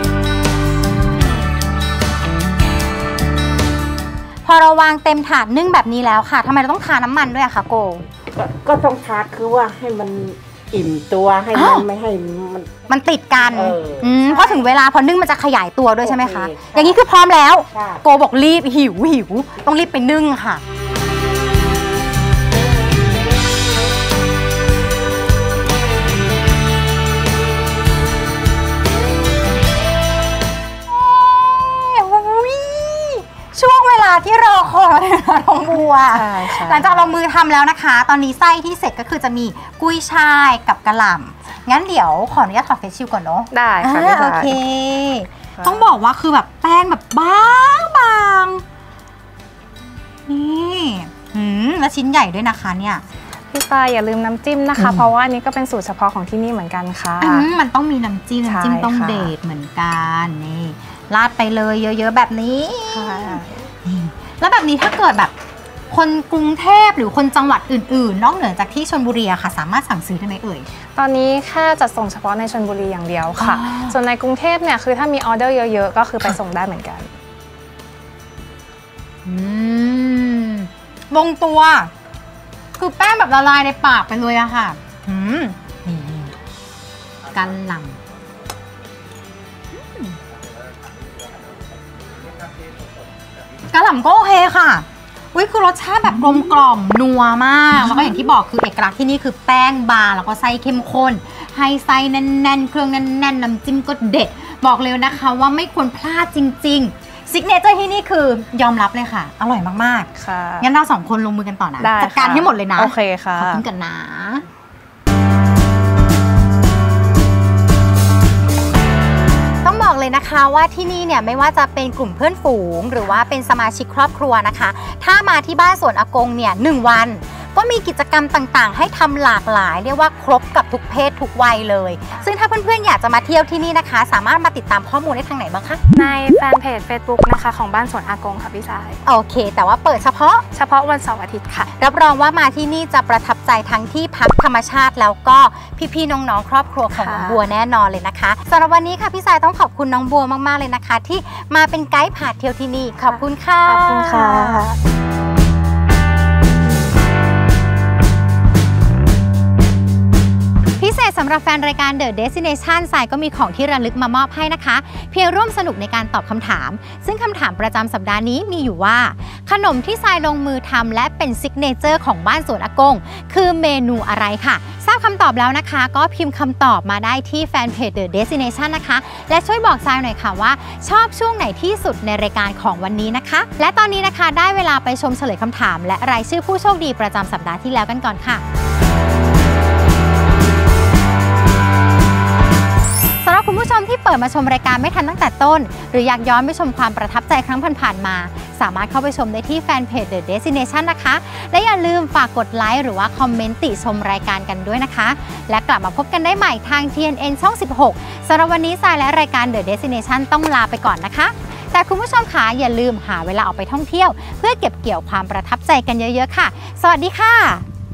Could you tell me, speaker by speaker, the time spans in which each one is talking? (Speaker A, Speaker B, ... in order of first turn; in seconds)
Speaker A: 4.5-8.1, 11.5-11.9, 12.9-20.6, 30.9-48.6, 50.3-53.0, 54.8-55.1, 57.2-65.3, 65.9-70.7, 73.4-74.0, 79.2-81.9, 82.8-86.3, 87.3-88.0, 89.8-90.2, 93.7-110.1, 110.6-114.4, 119.6-135.8, 139.1-140.4, 141.8-154.7, 160.8-188.4, 193.2-217.7
Speaker B: 8.3-12.8, 13.4-14.6, 16.0-17.0, 17.7-18.0
Speaker C: 36.1-37.1, 43.5-44.6, 45.6-45.9, 53.5-57.5, 58.5-59.3, 62.9-63.7, 71.0-77.1, 110.2-110.7, 111.8-113.6, 135.9-139.0, 140.5-141.7, 146.9-147.4, 153.1-154.8